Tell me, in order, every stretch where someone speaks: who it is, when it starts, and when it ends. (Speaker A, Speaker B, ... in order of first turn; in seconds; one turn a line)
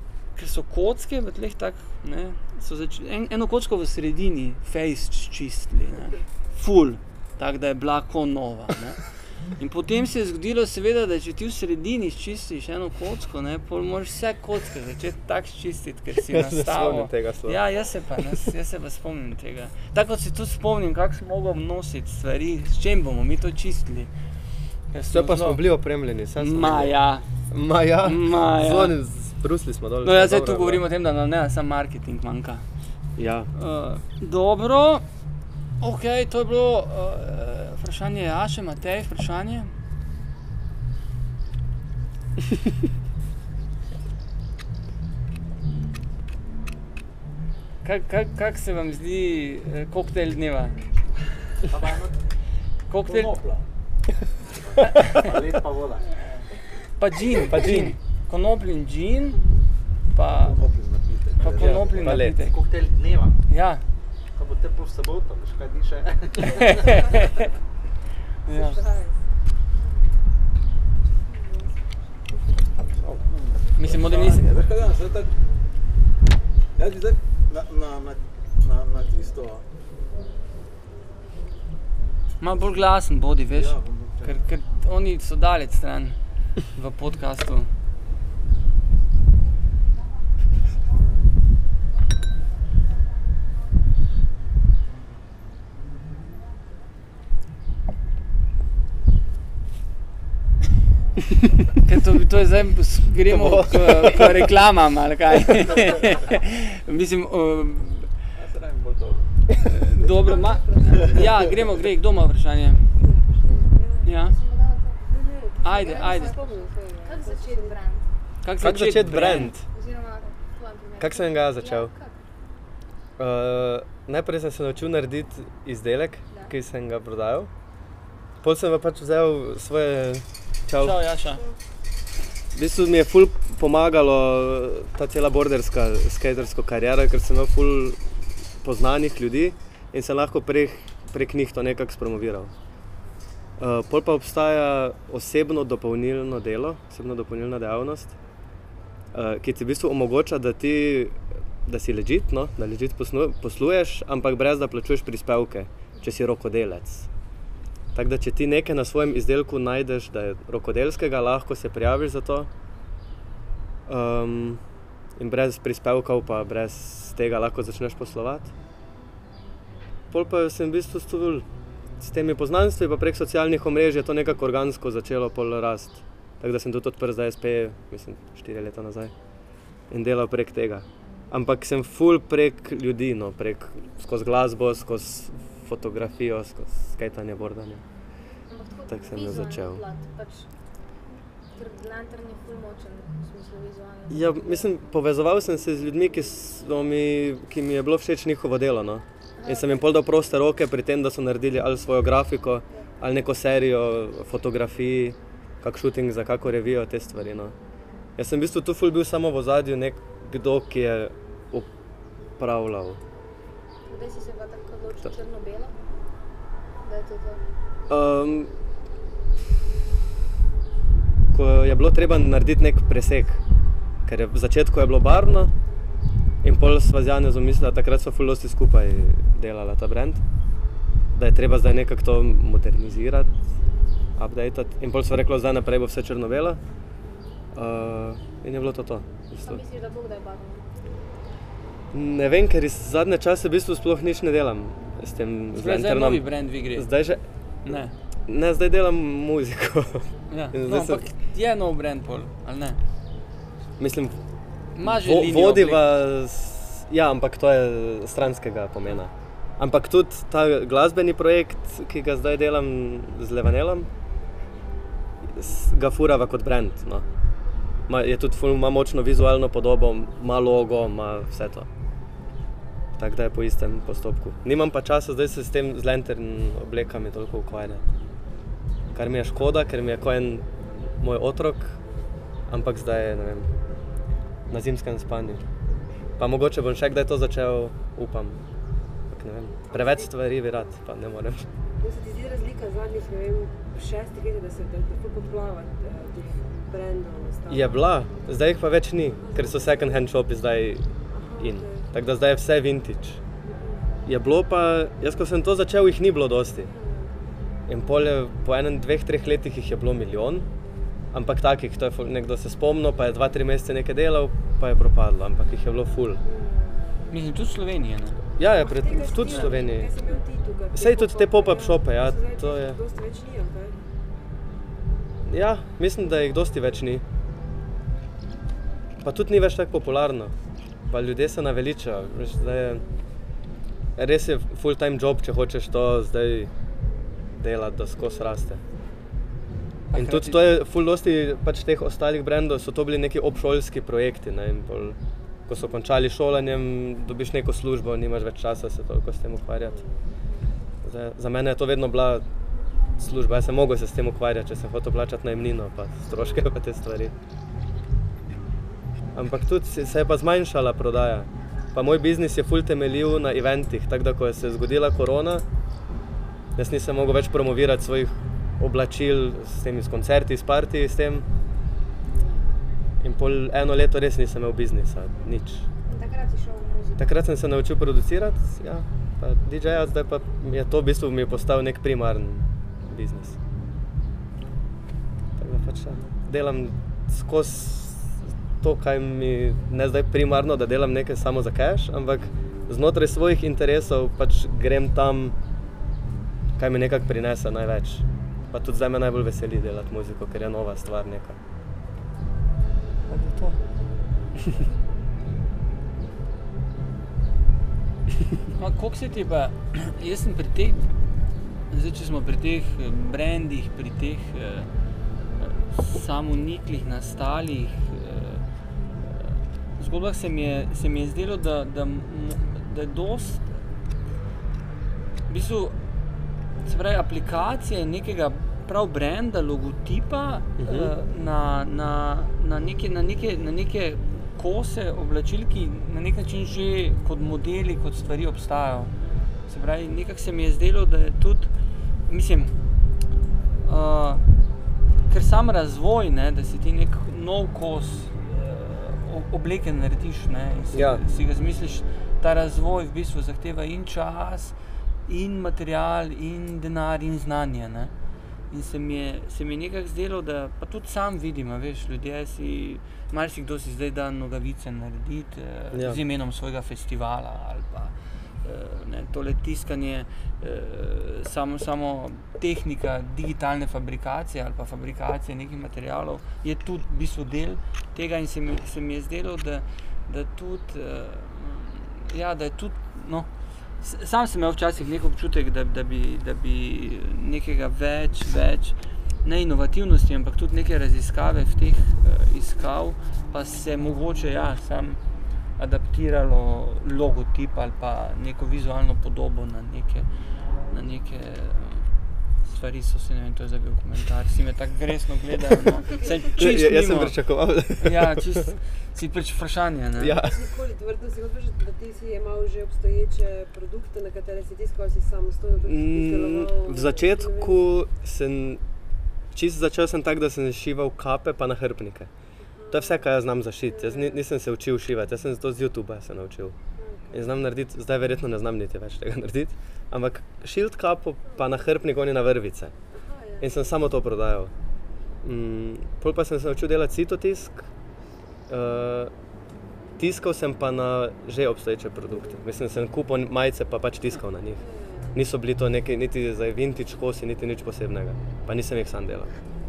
Speaker A: 0.4-24.1
Speaker B: 16.2-17.6
Speaker A: 24.9-25.6
Speaker B: 25.1-26.9
Speaker A: 26.4-27.2
Speaker B: 27.5-30.8
Speaker A: 28.0-28.9
Speaker A: 30.0-32.6
Speaker B: 33.2-33.5
Speaker A: 33.5-35.0
Speaker A: 35.8-39.7
Speaker A: 47.8-50.8
Speaker C: 51.6-52.2
Speaker A: 52.9-53.3
Speaker D: 53.0-53.6
Speaker C: 54.7-56.2
Speaker A: 57.0-59.4
Speaker B: 57.5-58.0
Speaker A: 60.1-60.6
Speaker D: 60.3-62.1
Speaker A: 61.4-62.6
Speaker B: 61.6-62.4
Speaker C: 62.4-63.4
Speaker A: 63.5-63.8
Speaker C: 64.3-67.1
Speaker A: 66.6-67.5
Speaker A: 68.5-68.8
Speaker E: 68.5-69.2
Speaker E: 71.2-72.5
Speaker D: 73.2-75.3
Speaker A: 73.8-74.5
Speaker D: 76.8-79.6
Speaker A: 82.4-87.7
Speaker D: 83.5-84.4
Speaker A: 101.8-108.1
Speaker B: 103.3-104.5
Speaker D: 108.4-109.3
Speaker A: 109.7-112.8
Speaker E: 110.0-111.5
Speaker E: 113.0-114.0
Speaker F: 113.4-115.0
Speaker A: 114.0-114.3
Speaker E: 115.1-118.0
Speaker F: 115.6-118.1
Speaker A: 115.6-116.4
Speaker A: 118.4-119.5
Speaker B: 118.6-119.6
Speaker F: 119.7-122.2
Speaker B: 121.0-121.9
Speaker B: 123.2-127.5
Speaker B: 128.4-131.0
Speaker A: 130.8-131.4
Speaker B: 132.5-142.5
Speaker B: 143.6-148.1
Speaker B: 149.1-157.1
Speaker B: 157.9-162.5
Speaker B: 163.9-164.6
Speaker B: 165.2-168.5
Speaker B: 170.1-171.5
Speaker B: 172.0-179.1
Speaker B: 179.9-187.8
Speaker F: 188.5-190.5
Speaker B: 188.9-189.8
Speaker F: 191.5-194.7
Speaker B: 194.1-207.5
Speaker F: 199.4-199.9
Speaker B: 208.2-211.7
Speaker B: 212.4-213.0
Speaker F: 213.9-215.7
Speaker F: 216.8-217.4
Speaker B: 217.9-218.5
Speaker B: 221.3-223.4
Speaker B: 224.1-225.5
Speaker B: 226.4-230.2
Speaker B: 231.2-233.3
Speaker B: 234.2-236.6
Speaker B: 237.5-239.6
Speaker F: 239.4-240.6
Speaker B: 241.9-251.1
Speaker A: 245.6-246.9
Speaker A: 247.7-247.9
Speaker A: 250.3-252.8
Speaker B: 253.8-254.2
Speaker A: 254.8-255.8
Speaker B: 254.8-263.9
Speaker B: 265.2-267.1
Speaker B: 267.9-271.7
Speaker B: 273.0-277.9
Speaker B: 278.9-280.5
Speaker B: 281.0-281.8
Speaker B: 282.5-283.5
Speaker B: 284.5-285.4
Speaker B: 286.2-288.4
Speaker B: 289.1-291.5
Speaker E: 289.6-290.7
Speaker E: 291.8-298.0
Speaker B: 297.5-303.2
Speaker E: 299.2-300.0
Speaker E: 301.1-301.9
Speaker E: 303.4-303.8
Speaker B: 304.1-306.7
Speaker E: 306.6-307.1
Speaker B: 307.7-310.5
Speaker B: 311.1-316.2
Speaker E: 316.2-316.8
Speaker A: 317.1-318.2
Speaker B: 318.4-319.9
Speaker E: 318.4-323.8
Speaker B: 320.7-322.8
Speaker B: 325.3-327.0
Speaker B: 329.0-330.3
Speaker B: 330.9-332.9
Speaker B: 334.0-336.5
Speaker B: 337.4-338.6
Speaker A: 339.9-340.4
Speaker B: 339.9-349.8
Speaker E: 349.6-350.1
Speaker B: 350.8-352.3
Speaker B: 353.0-357.1
Speaker B: 359.1-365.4
Speaker B: 366.6-371.3
Speaker E: 372.1-372.5
Speaker B: 373.0-375.7
Speaker F: 375.9-377.1
Speaker B: 377.0-383.4
Speaker B: 385.4-395.4
Speaker B: 396.6-401.4
Speaker B: 403.1-403.6
Speaker A: 408.5-410.9
Speaker A: 411.7-414.7
Speaker A: 415.4-418.4
Speaker A: 419.0-423.4
Speaker A: 425.3-425.8
Speaker A: 426.6-438.9
Speaker B: 430.6-430.9
Speaker A: 439.5-441.5
Speaker A: 442.1-442.6
Speaker A: 443.6-444.2
Speaker A: 445.1-454.6
Speaker B: 450.7-451.0
Speaker A: 455.1-457.9
Speaker A: 458.5-483.3
Speaker B: 465.7-466.0
Speaker A: 483.8-495.0
Speaker A: 495.6-500.1
Speaker A: 500.7-501.9
Speaker A: 502.4-507.1
Speaker B: 506.4-508.6
Speaker A: 507.8-510.1
Speaker B: 510.0-510.5
Speaker E: 510.2-517.6
Speaker B: 515.6-518.6
Speaker B: 519.3-522.1
Speaker E: 522.4-523.1
Speaker B: 522.7-526.6
Speaker E: 523.7-524.2
Speaker E: 526.8-527.4
Speaker B: 527.1-532.7
Speaker E: 532.9-533.9
Speaker B: 533.4-534.5
Speaker B: 535.2-537.7
Speaker B: 538.5-539.1
Speaker B: 540.0-544.6
Speaker E: 542.1-542.4
Speaker E: 544.6-545.2
Speaker B: 545.1-549.4